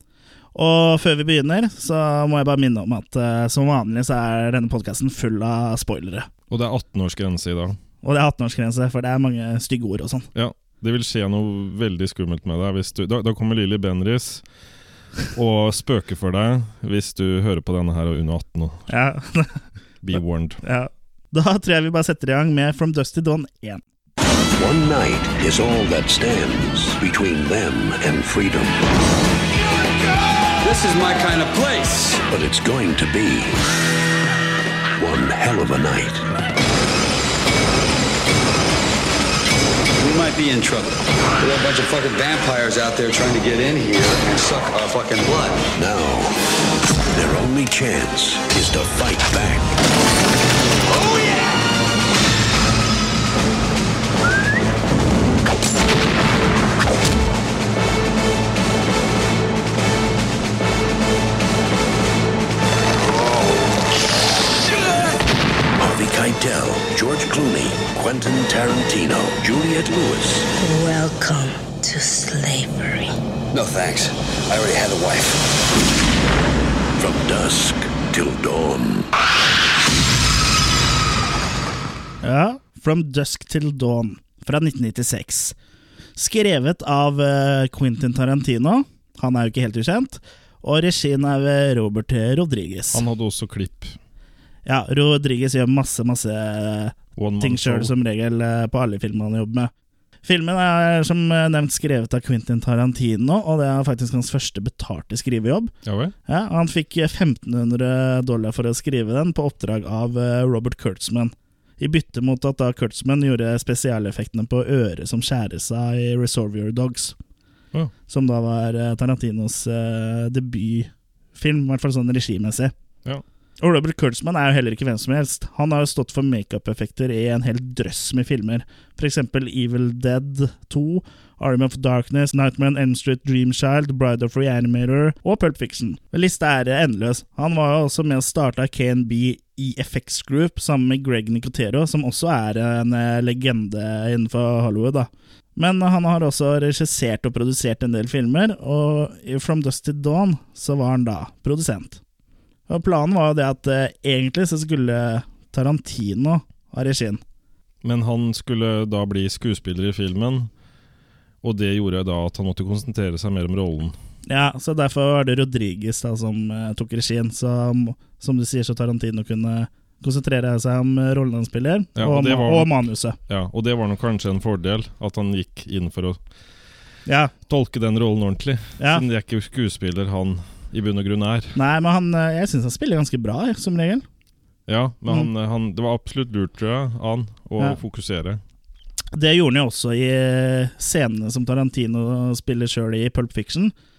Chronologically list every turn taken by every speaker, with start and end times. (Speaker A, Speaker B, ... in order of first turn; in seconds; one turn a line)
Speaker A: 0.6-6.3
Speaker B: 6.5-7.8
Speaker A: 8.0-10.3
Speaker B: 10.3-14.4
Speaker B: 15.3-18.9
Speaker A: 18.9-19.6
Speaker B: 20.0-20.6
Speaker A: 20.6-23.8
Speaker C: 24.5-28.8
Speaker D: 30.6-32.2
Speaker C: 32.3-33.6
Speaker C: 35.0-36.2
Speaker D: 40.0-45.7
Speaker C: 45.8-46.4
Speaker C: 47.1-49.7
Speaker D: 51.0-51.4
Speaker C: 65.8-70.5
Speaker E: 70.6-73.2
Speaker D: 73.5-75.5
Speaker C: 77.0-79.1
Speaker A: 82.2-85.5
Speaker A: 86.2-93.0
Speaker B: 92.9-94.0
Speaker A: 94.7-99.7
Speaker B: 97.2-97.9
Speaker A: 100.2-105.7
Speaker B: 105.8-106.1
Speaker A: 106.3-117.1
Speaker A: 118.1-122.7
Speaker A: 123.6-152.0
Speaker A: 152.7-157.2
Speaker B: 157.8-160.5
Speaker B: 161.4-164.0
Speaker A: 164.3-173.2
Speaker B: 172.0-172.7
Speaker B: 173.3-176.2
Speaker A: 177.1-177.3
Speaker B: 177.5-181.6
Speaker A: 178.8-179.0
Speaker A: 181.6-184.0
Speaker B: 184.7-188.4
Speaker A: 189.1-193.7